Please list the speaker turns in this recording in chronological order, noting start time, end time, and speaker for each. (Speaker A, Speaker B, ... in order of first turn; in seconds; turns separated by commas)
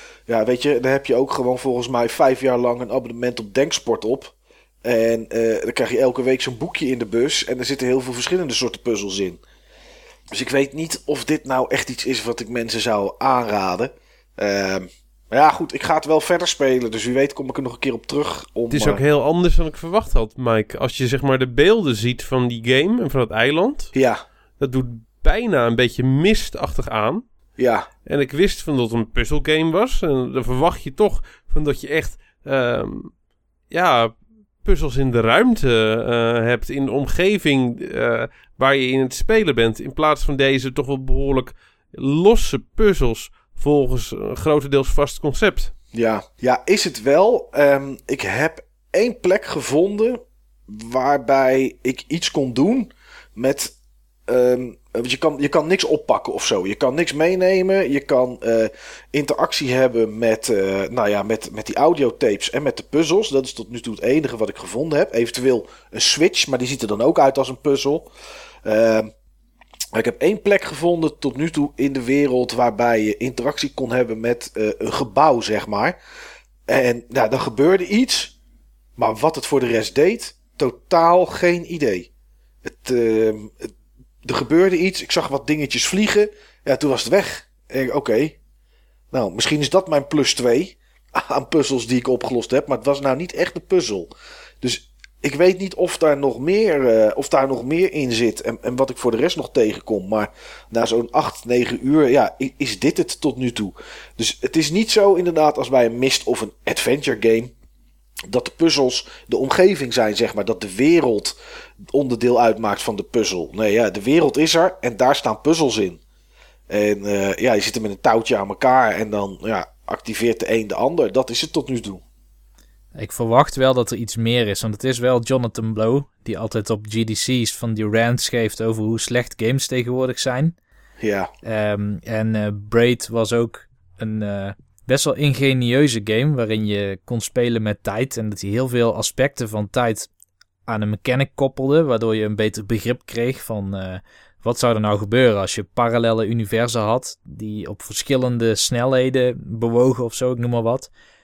Speaker A: 0.3-9.4, Speaker A: 10.3-19.0, Speaker B: 18.7-23.9, Speaker A: 23.9-24.2, Speaker B: 24.6-27.2, Speaker A: 27.6-27.9, Speaker B: 28.1-33.1, Speaker B: 33.7-45.7, Speaker A: 45.9-53.7, Speaker A: 54.3-68.1, Speaker A: 68.7-69.1, Speaker A: 69.9-76.0, Speaker A: 76.7-78.3, Speaker A: 79.0-82.1, Speaker A: 82.6-83.7, Speaker A: 84.2-88.4, Speaker A: 89.1-94.1, Speaker A: 94.6-107.5, Speaker A: 108.3-111.4, Speaker A: 111.9-116.0, Speaker A: 116.7-122.0, Speaker C: 123.0-130.6, Speaker A: 131.0-131.3, Speaker C: 131.4-140.1, Speaker C: 140.7-150.9